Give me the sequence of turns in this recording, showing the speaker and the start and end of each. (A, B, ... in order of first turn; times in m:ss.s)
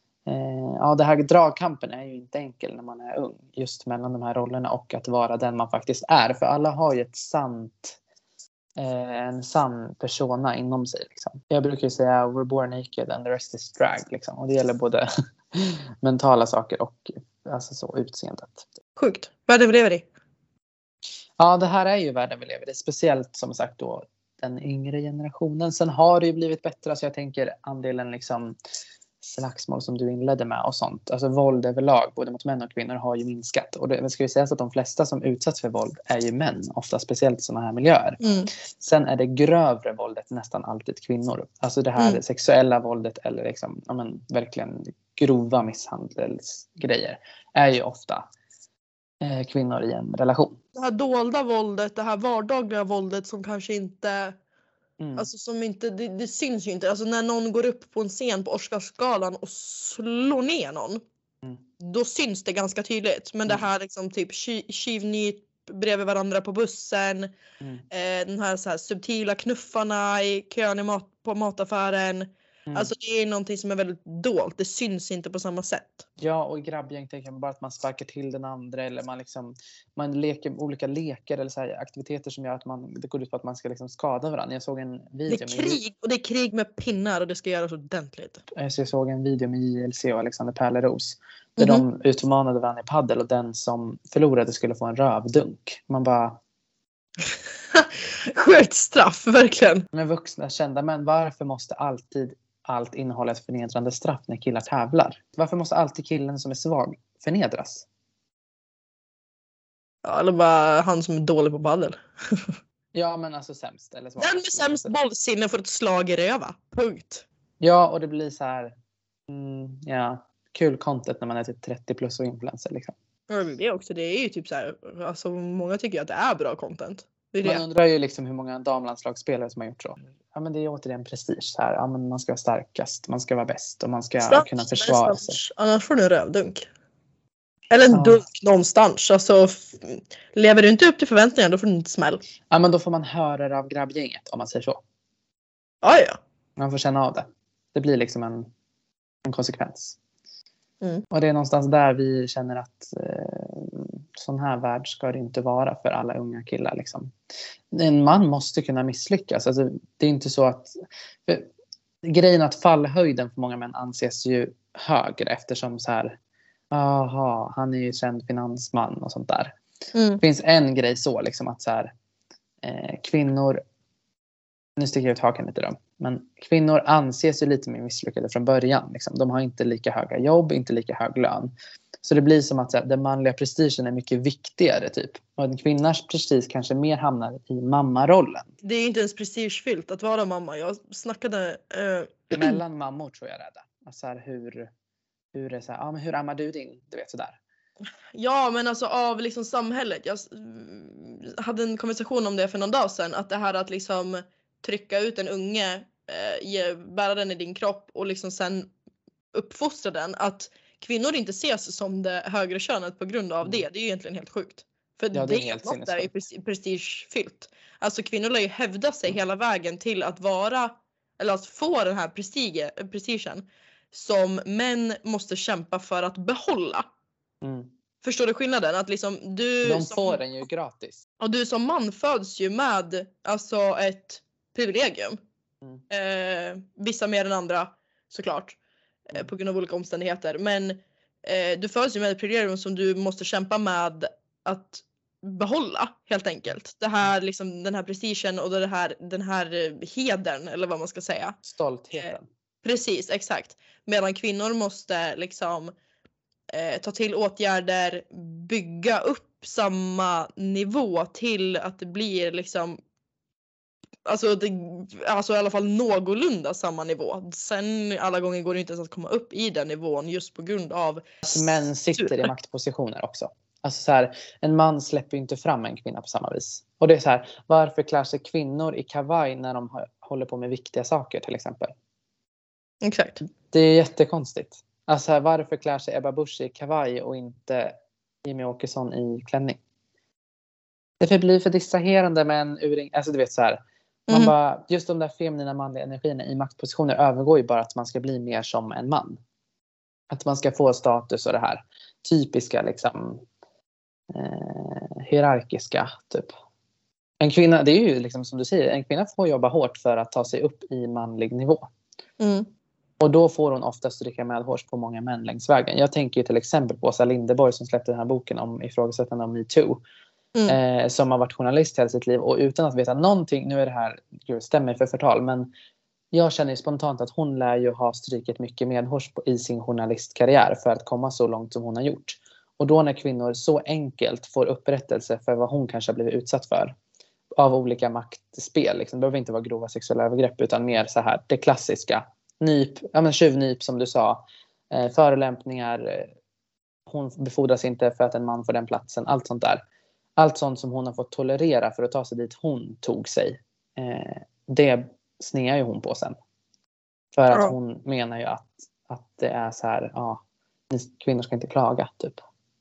0:00.2-0:08.0 A
0:08.8-0:18.6 A
0:19.0-0:20.0 B
0:21.4-0:28.6 A
0:29.2-0:38.2 A
0:38.2-0:38.5 B
0:38.8-0:48.3 A
0:49.2-0:50.6 A
0:50.7-0:54.4 B
0:55.0-0:55.3 A
0:55.2-1:01.0 B
1:01.8-1:07.3 B
1:07.9-1:16.0 B
1:12.7-1:12.9 A
1:16.2-1:25.8 A
1:25.3-1:28.4 B
1:28.5-1:36.4 A
1:31.6-1:31.8 B
1:37.7-1:39.9 B
1:39.9-1:47.8 A
1:50.0-1:52.5 B
1:52.9-1:54.9 A
1:54.2-1:57.2 B
1:57.6-1:58.7 A
1:59.3-2:02.9 A
2:03.3-2:07.6 B
2:07.4-2:15.4 A
2:14.2-2:16.7 B
2:17.7-2:22.2 B
2:17.9-2:18.2 A
2:22.5-2:24.8 A
2:25.8-2:26.2 B
2:26.6-2:28.5 A
2:29.2-2:30.0 A
2:31.1-2:37.1 A
2:37.7-2:40.7 A
2:42.0-2:46.2 A
2:46.7-2:49.6 A
2:49.9-2:50.2 B
2:50.2-2:51.9 A
2:52.6-2:53.6 A
2:54.8-3:01.5 A
3:02.0-3:08.5 A
3:08.6-3:12.6 B
3:12.3-3:14.7 A
3:15.3-3:17.4 A
3:18.1-3:28.7 B
3:29.3-3:46.8 B
3:35.1-3:36.1 A
3:47.4-3:47.7 A
3:48.0-3:50.2 B
3:49.6-3:51.0 A
3:51.2-3:55.2 B
3:55.9-4:11.4 B
4:11.4-4:12.3 A
4:12.6-4:15.7 B
4:16.5-4:22.8 B
4:24.0-4:32.3 B
4:31.3-4:41.7 A
4:42.8-4:43.2 B
4:43.5-4:49.6 A
4:51.0-4:59.2 A
5:00.1-5:03.2 A
5:04.1-5:06.3 A
5:07.2-5:11.6 A
5:12.2-5:12.5 B
5:13.0-5:19.8 A
5:20.5-5:25.5 A
5:26.1-5:36.8 A
5:37.4-5:46.1 A
5:46.9-5:49.6 A
5:50.2-5:56.2 A
5:57.1-6:02.2 A